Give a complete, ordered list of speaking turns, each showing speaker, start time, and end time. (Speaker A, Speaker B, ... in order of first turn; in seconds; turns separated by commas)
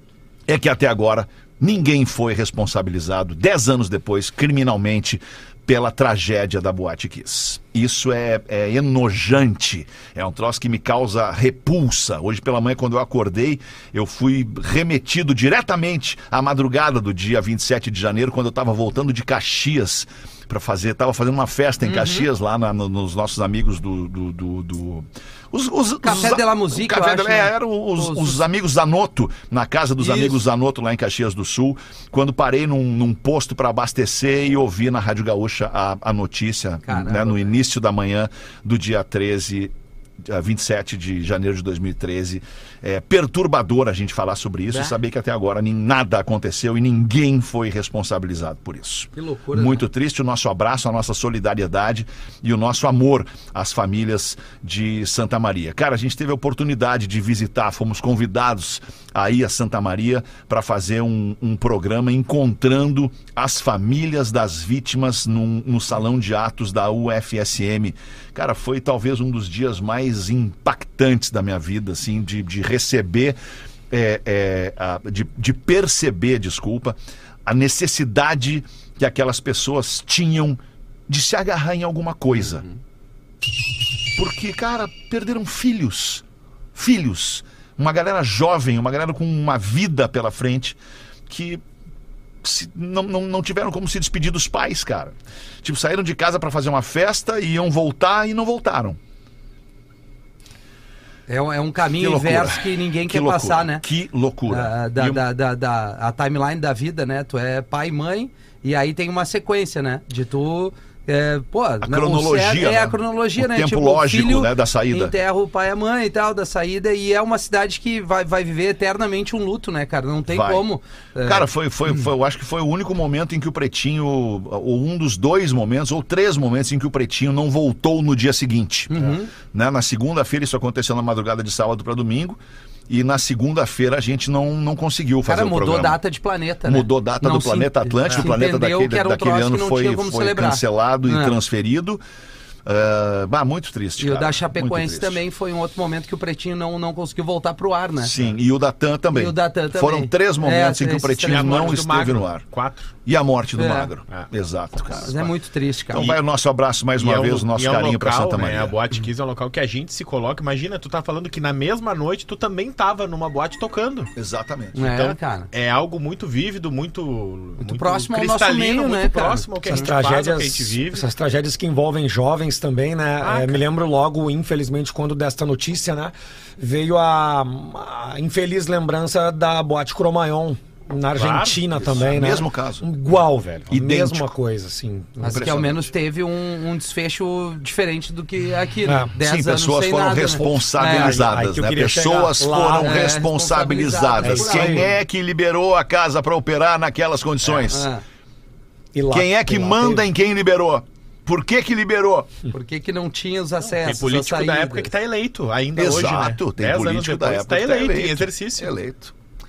Speaker A: 0.5-73.4, Speaker B: 21.8-22.3, Speaker B: 26.0-28.4, Speaker B: 30.0-30.3, Speaker B: 36.9-37.5, Speaker B: 44.7-45.0, Speaker B: 49.1-49.8, Speaker A: 73.9-82.6, Speaker B: 82.5-82.8, Speaker A: 84.2-86.2, Speaker A: 86.8-90.8, Speaker A: 91.3-91.6, Speaker A: 92.4-99.0, Speaker B: 101.3-103.8, Speaker A: 102.0-105.2, Speaker B: 104.5-121.5, Speaker A: 111.8-115.2, Speaker A: 120.3-120.7, Speaker A: 121.2-136.0, Speaker B: 128.9-129.3, Speaker B: 135.3-141.4, Speaker A: 136.7-142.0, Speaker A: 142.7-145.2, Speaker B: 144.0-148.1, Speaker A: 148.0-152.4, Speaker B: 149.1-151.8, Speaker C: 151.3-152.9, Speaker A: 153.1-155.3, Speaker B: 153.6-153.9, Speaker B: 154.9-156.1, Speaker A: 155.9-158.8, Speaker C: 157.0-164.1, Speaker A: 164.2-164.8, Speaker B: 164.8-165.5, Speaker C: 164.8-171.1, Speaker B: 167.6-170.0, Speaker D: 169.7-185.4, Speaker C: 173.2-173.6, Speaker C: 181.2-181.7, Speaker A: 181.8-182.9, Speaker A: 183.7-184.3, Speaker B: 185.2-191.2, Speaker A: 185.2-185.9, Speaker D: 188.9-189.1, Speaker A: 189.2-197.9, Speaker D: 190.4-193.1, Speaker B: 192.8-194.9, Speaker D: 194.2-194.9, Speaker B: 197.7-198.0, Speaker D: 198.9-200.1, Speaker A: 199.1-202.3, Speaker B: 202.5-204.9, Speaker C: 203.7-208.7, Speaker A: 205.8-209.1